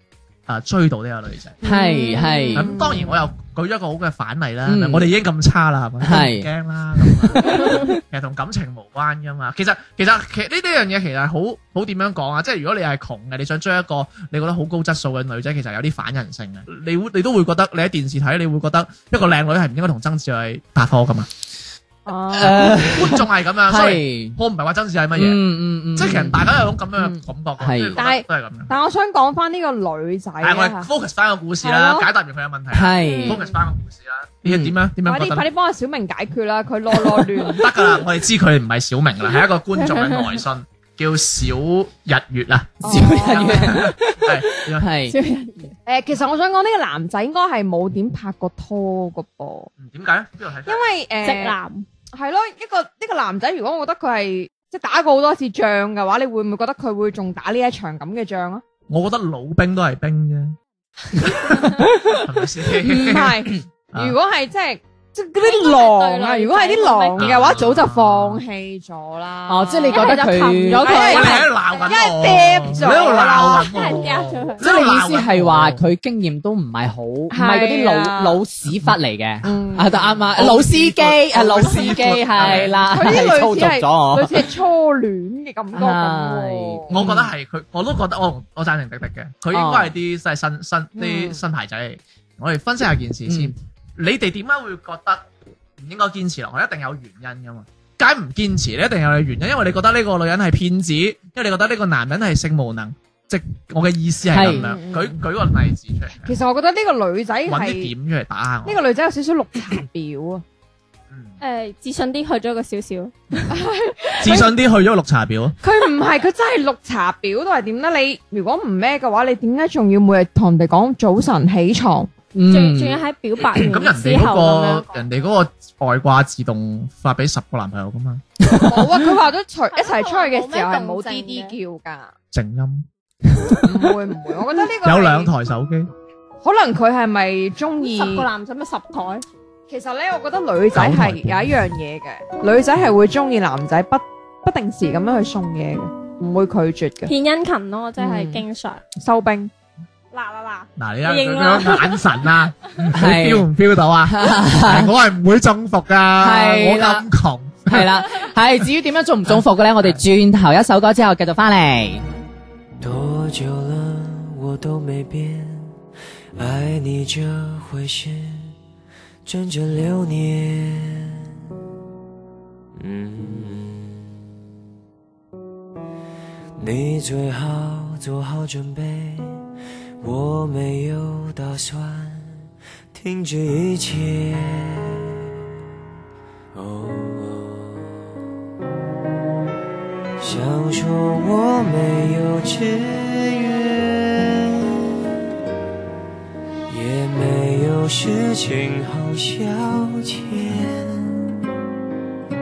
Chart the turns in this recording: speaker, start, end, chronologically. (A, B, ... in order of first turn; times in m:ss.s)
0:00.5-0:01.6 A
0:01.6-0:02.7 B
0:01.6-0:03.2 C
0:02.6-0:21.3 A
0:04.7-0:05.1 B
0:06.0-0:06.5 B
0:07.0-0:07.9 B
0:22.1-0:22.9 C
0:22.3-0:24.4 B
0:22.4-0:25.4 A
0:25.2-0:26.4 B
0:26.0-0:28.8 A
0:27.6-0:28.0 B
0:28.0-0:30.9 C
0:30.4-0:35.5 A
0:31.6-0:32.1 C
0:32.7-0:33.4 B
0:33.0-0:33.4 D
0:34.5-0:34.8 B
0:35.0-0:38.0 C
0:37.5-0:44.9 A
0:39.8-0:40.2 D
0:42.8-0:43.9 C
0:42.8-0:45.2 B
0:45.1-0:45.8 D
0:45.9-0:49.7 C
0:49.8-0:50.8 A
0:50.7-0:51.6 C
0:51.2-0:51.8 D
0:52.1-0:58.6 C
0:58.9-1:00.6 A
1:01.2-1:04.2 A
1:02.8-1:14.1 C
1:05.4-1:07.4 D
1:07.2-1:08.4 A
1:09.5-1:11.0 B
1:09.9-1:12.0 D
1:10.9-1:15.8 A
1:12.8-1:14.6 D
1:14.6-1:24.5 B
1:17.3-1:18.4 C
1:18.7-1:18.9 A
1:19.4-1:20.2 C
1:20.4-1:22.8 A
1:22.4-1:27.1 C
1:25.7-1:27.2 B
1:26.9-1:35.2 A
1:29.5-1:29.9 B
1:31.0-1:31.4 C
1:33.3-1:33.5 B
1:35.8-1:46.4 A
1:44.3-1:44.6 B
1:44.4-1:45.2 C
1:46.2-1:47.9 C
1:47.5-1:48.8 A
1:48.6-1:50.4 C
1:51.4-1:53.5 D
1:53.5-1:54.5 C
1:54.2-1:55.6 A
1:55.6-2:02.1 C
2:02.4-2:03.0 B
2:02.5-2:04.9 D
2:03.4-2:08.2 A
2:08.5-2:08.8 B
2:08.5-2:12.1 C
2:09.7-2:11.6 D
2:12.3-2:12.9 A
2:13.6-2:15.3 C
2:14.8-2:15.9 A
2:16.4-2:18.3 C
2:17.8-2:19.2 D
2:19.7-2:27.1 C
2:20.7-2:21.6 A
2:27.1-2:28.8 D
2:28.0-2:28.4 C
2:29.0-2:29.5 C
2:30.1-2:32.2 D
2:30.8-2:38.1 A
2:32.9-2:33.5 B
2:34.1-2:34.9 B
2:36.2-2:37.1 B
2:37.7-2:42.0 B
2:39.3-2:40.0 A
2:42.8-2:45.8 E
2:46.4-2:48.5 E
2:49.2-2:51.3 E
2:52.8-2:54.1 E
2:56.6-2:59.5 E
3:00.0-3:05.2 E
3:06.5-3:08.1 E
3:10.2-3:15.0 E
3:16.7-3:21.4 E